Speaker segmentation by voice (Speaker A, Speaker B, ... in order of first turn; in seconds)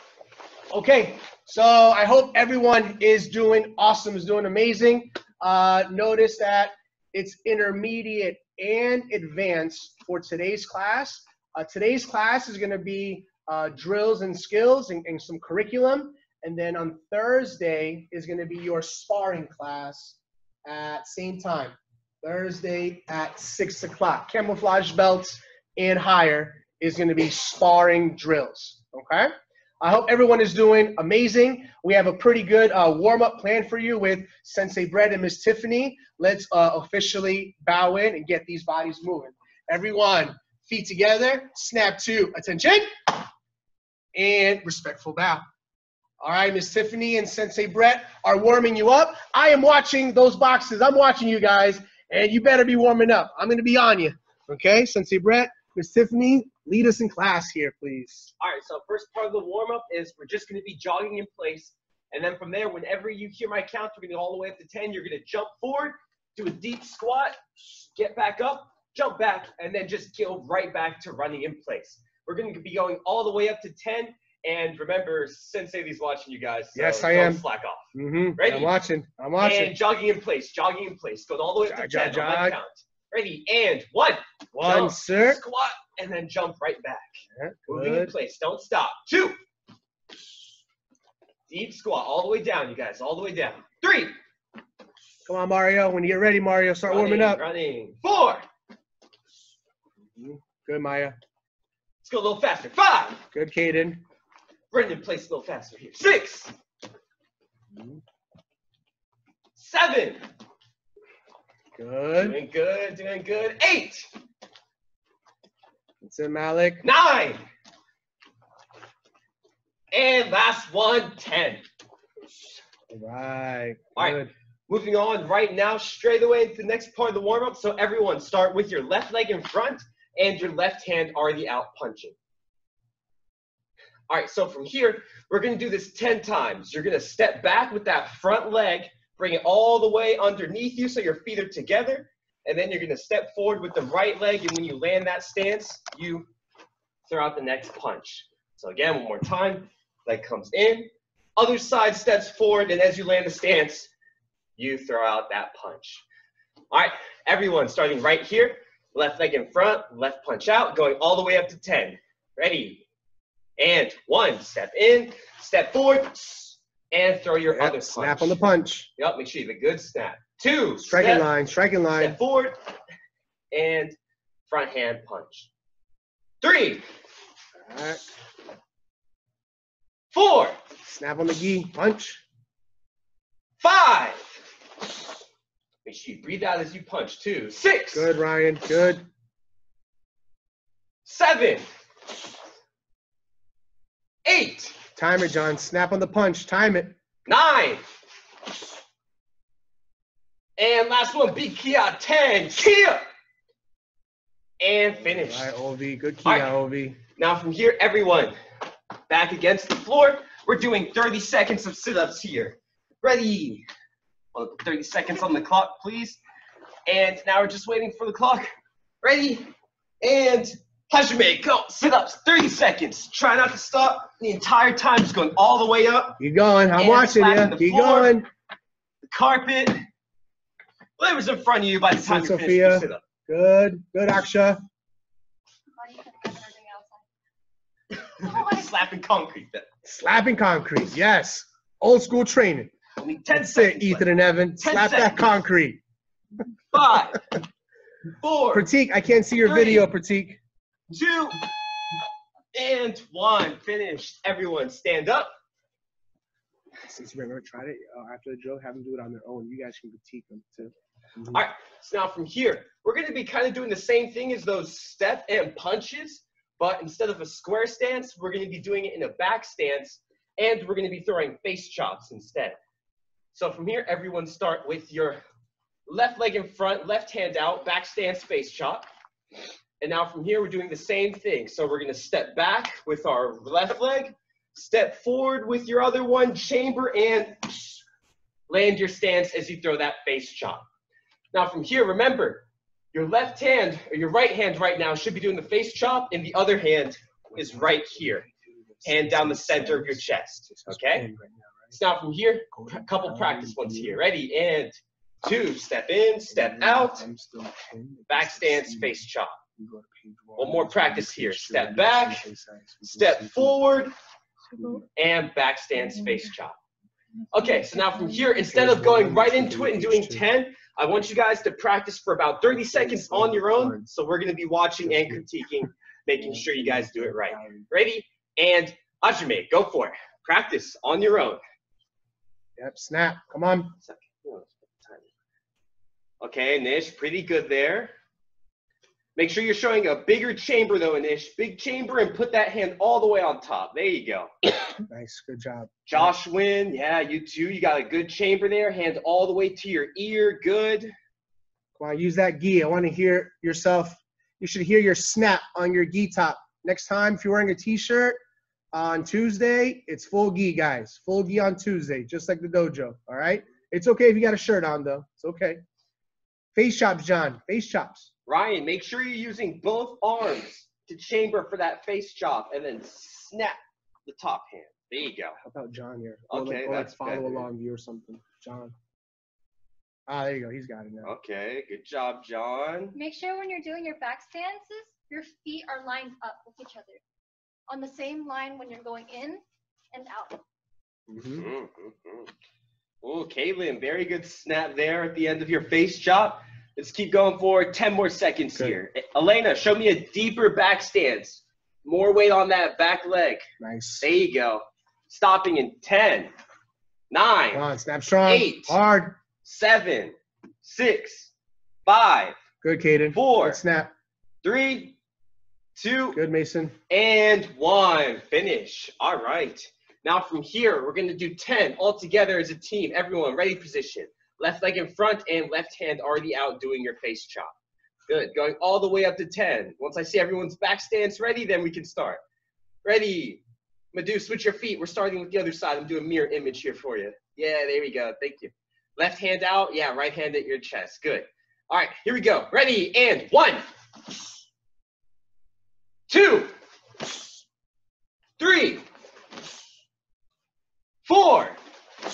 Speaker A: 0.7-43.2, 44.1-45.4, 46.2-58.3, 76.7-79.8, 81.6-82.6, 84.6-85.4, 87.3-88.1, 95.2-97.4, 100.2-101.2, 103.3-104.0, 107.7-108.0, 111.8-112.4, 116.0-116.8, 122.9-124.3, 167.5-168.9, 170.8-172.2, 177.7-178.0, 180.8-182.2, 187.9-189.0, 194.9-196.9, 205.0-207.0, 226.2-228.3, 232.0-234.6, 239.8-242.7, 243.3-245.8, 248.5-250.4, 256.9-261.4, 297.3-301.8, 302.5-304.0, 306.3-309.0, 309.6-313.6, 314.5-314.8, 318.4-320.3, 322.6-323.8, 324.8-325.3, 326.2-327.6, 332.6-333.8, 344.9-346.1, 351.8-358.2, 358.7-365.6, 366.5-368.1, 375.4-378.7, 380.1-381.1, 391.1-391.4, 403.6-404.1, 407.5-409.2, 412.6-413.9, 416.1-416.8
Speaker B: 58.4-78.7, 79.4-89.4, 91.5-94.2, 96.9-98.5, 102.0-103.2, 104.7-106.5, 109.5-110.3, 112.2-114.1, 116.8-117.4, 119.9-121.6, 124.0-132.2, 134.1-146.3, 147.1-153.9, 154.6-156.0, 156.7-162.8, 163.6-168.4, 169.0-171.3, 171.9-172.6, 173.5-174.0, 174.5-175.5, 176.4-176.8, 180.1-180.6, 183.6-184.4, 185.8-188.1, 191.0-191.7, 194.2-194.8, 197.2-197.8, 200.6-203.1, 204.6-205.5, 206.2-206.5, 207.2-208.3, 209.1-213.7, 214.3-216.2, 216.9-226.2, 226.8-228.2, 229.0-229.8, 231.0-233.0, 237.9-239.7, 243.0-245.4, 246.7-247.2, 248.2-248.7, 249.4-249.9, 250.9-251.5, 252.5-255.3, 261.3-272.6, 273.3-275.2, 275.9-278.9, 279.8-287.8, 288.5-290.6, 291.3-298.2, 298.8-301.1, 301.7-307.1, 308.1-309.4, 310.4-312.2, 312.8-313.9, 314.9-316.6, 317.3-331.4, 333.8-335.1, 336.2-337.9, 339.1-344.3, 345.9-350.9, 368.3-375.4, 376.3-377.5, 381.0-382.9, 391.3-392.3, 393.0-403.5, 404.0-406.3, 407.1-407.7, 408.2-408.8, 409.4-411.3, 411.9-412.4, 413.1-413.6, 414.4-415.0, 415.8-416.2, 416.9-427.5, 428.1-432.2, 432.8-443.7, 446.1-446.5, 448.4-448.8, 451.0-451.6
Speaker C: 235.8-237.1, 382.9-387.0, 387.7-390.4